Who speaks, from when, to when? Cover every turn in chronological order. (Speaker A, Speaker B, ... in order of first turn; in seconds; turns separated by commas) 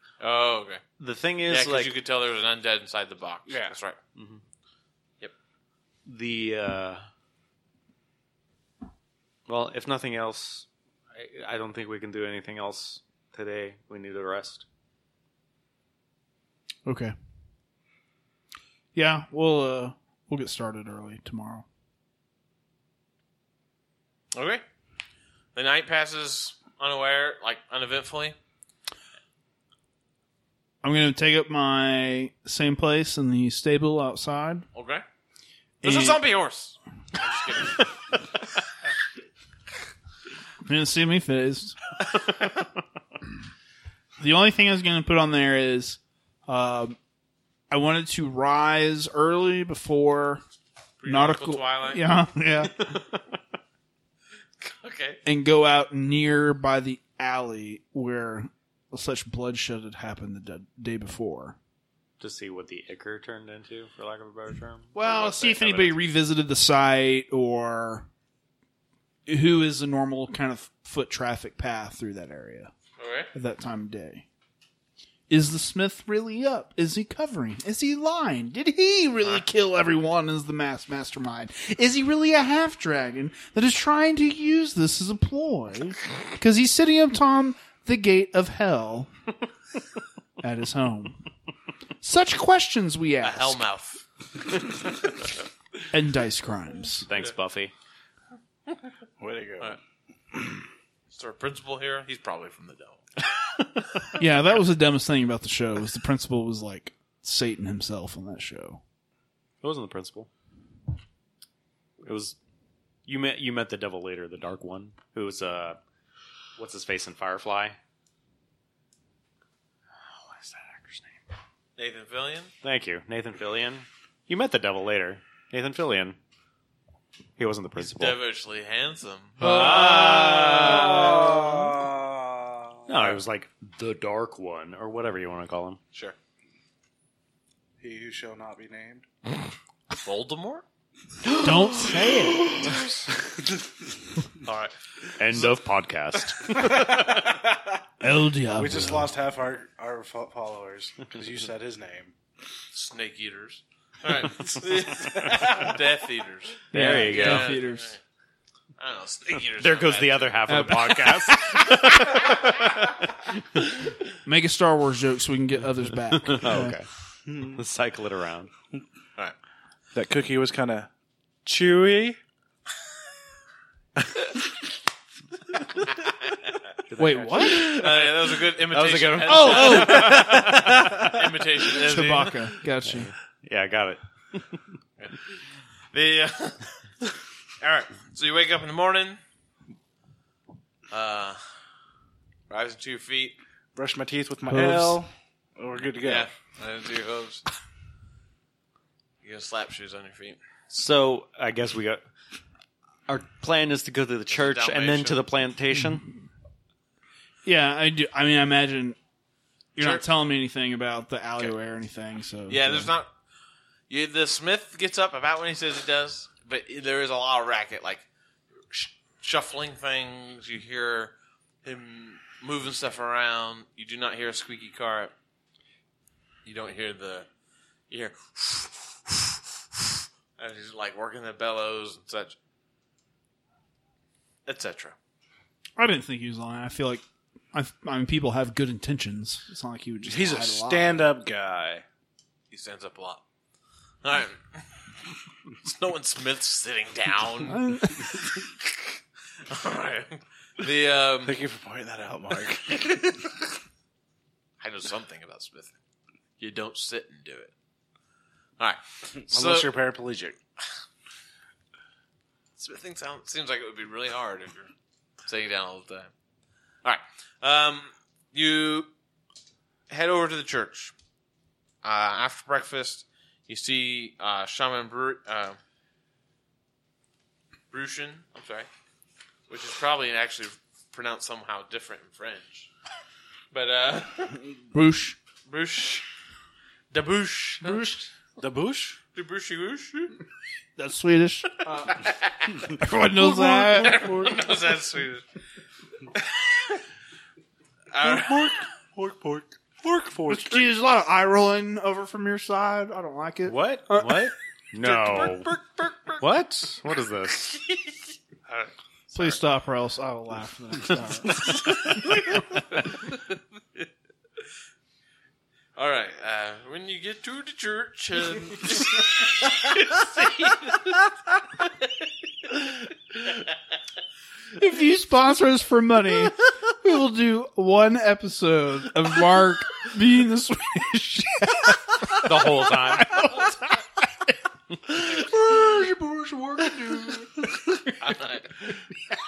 Speaker A: 0.2-0.8, Speaker B: 1.0-1.9, Speaker A: 1.5-4.0, Speaker C: 3.5-3.8, Speaker B: 4.2-4.4, Speaker B: 6.0-7.1, Speaker B: 9.5-14.7, Speaker D: 16.9-17.1, Speaker D: 18.9-21.7, Speaker A: 24.3-24.6, Speaker A: 25.6-28.4, Speaker D: 30.8-34.7, Speaker A: 34.7-35.0, Speaker D: 35.8-36.2, Speaker A: 35.8-37.9, Speaker D: 40.6-41.8, Speaker D: 44.2-47.0, Speaker D: 47.7-50.4, Speaker A: 51.0-52.0, Speaker D: 51.1-53.0, Speaker B: 52.9-53.2, Speaker A: 54.6-55.2, Speaker D: 55.2-61.6, Speaker B: 62.2-66.0, Speaker D: 64.9-68.1, Speaker D: 69.3-72.7, Speaker A: 73.0-73.3, Speaker D: 73.3-74.2, Speaker D: 75.3-89.1, Speaker D: 90.4-91.2, Speaker D: 92.0-93.6, Speaker A: 93.2-94.0, Speaker D: 95.9-97.1, Speaker B: 97.0-97.7, Speaker C: 99.2-99.8, Speaker C: 100.3-100.6, Speaker A: 101.1-103.1, Speaker D: 104.2-108.8, Speaker B: 109.6-110.3, Speaker B: 112.0-112.4, Speaker B: 113.1-115.8, Speaker B: 116.6-117.8, Speaker B: 120.0-121.2, Speaker A: 121.8-122.5, Speaker B: 122.6-126.2, Speaker B: 127.4-128.2, Speaker A: 127.8-131.0, Speaker B: 129.4-131.7, Speaker D: 129.4-130.2, Speaker C: 129.8-132.8, Speaker B: 132.9-135.8, Speaker C: 137.8-139.1, Speaker A: 140.0-140.6, Speaker D: 141.3-142.6, Speaker C: 142.5-142.8, Speaker A: 144.4-144.7, Speaker B: 145.2-147.3, Speaker C: 146.6-147.5, Speaker D: 148.0-149.2, Speaker C: 148.5-152.1, Speaker A: 152.7-158.0, Speaker B: 156.7-157.6, Speaker D: 156.7-157.9, Speaker A: 158.8-160.5, Speaker B: 159.5-163.3, Speaker D: 160.5-161.3, Speaker D: 164.2-166.8, Speaker B: 166.1-168.5, Speaker C: 167.3-167.6, Speaker C: 169.9-170.9, Speaker C: 171.5-172.2, Speaker B: 176.9-177.8, Speaker D: 177.0-178.1, Speaker A: 177.6-182.4, Speaker B: 178.7-181.1, Speaker D: 179.3-180.7, Speaker D: 181.7-183.1, Speaker B: 182.8-184.6, Speaker A: 185.0-186.9, Speaker A: 187.6-189.2, Speaker A: 190.9-191.4, Speaker A: 192.5-193.4, Speaker C: 193.8-196.3, Speaker D: 194.5-195.0, Speaker A: 196.0-197.4, Speaker A: 199.2-200.4, Speaker B: 200.7-202.0, Speaker B: 203.1-206.1, Speaker A: 204.3-205.2, Speaker D: 207.4-209.0, Speaker D: 209.8-212.9, Speaker A: 209.8-210.1, Speaker A: 212.5-213.1, Speaker A: 213.9-218.1, Speaker A: 218.7-225.1, Speaker A: 226.4-227.3, Speaker A: 227.9-229.2, Speaker A: 230.4-232.4, Speaker A: 234.5-235.0, Speaker D: 235.8-241.1, Speaker C: 240.1-241.8, Speaker A: 242.5-243.2, Speaker A: 244.0-244.7, Speaker A: 245.6-247.6, Speaker D: 247.4-248.2, Speaker A: 248.6-248.9, Speaker A: 249.5-251.4, Speaker C: 251.2-253.2, Speaker A: 254.6-255.8, Speaker A: 256.4-257.5, Speaker A: 258.6-259.7, Speaker C: 259.3-260.4, Speaker A: 262.6-264.7, Speaker A: 265.3-266.1, Speaker A: 266.8-268.9, Speaker A: 269.9-270.9, Speaker A: 271.8-275.6, Speaker A: 277.7-278.7, Speaker A: 279.5-282.7, Speaker A: 283.5-284.4, Speaker D: 284.7-285.2, Speaker A: 285.5-286.1, Speaker A: 286.9-287.8, Speaker D: 287.6-288.1, Speaker C: 288.4-289.0, Speaker A: 289.1-290.2, Speaker D: 290.8-291.7, Speaker A: 291.7-292.7, Speaker D: 292.8-294.1, Speaker C: 293.1-294.4, Speaker A: 293.7-295.2, Speaker A: 296.2-296.8, Speaker A: 297.9-298.6, Speaker C: 298.0-300.6, Speaker D: 300.3-304.3, Speaker B: 303.4-305.6, Speaker A: 304.8-306.2, Speaker B: 306.2-307.6, Speaker A: 308.5-309.4, Speaker D: 309.1-312.0, Speaker A: 315.8-321.1, Speaker A: 321.6-321.9, Speaker A: 322.6-323.4, Speaker D: 324.6-333.8, Speaker B: 332.2-333.4, Speaker D: 334.9-338.0, Speaker A: 338.0-338.5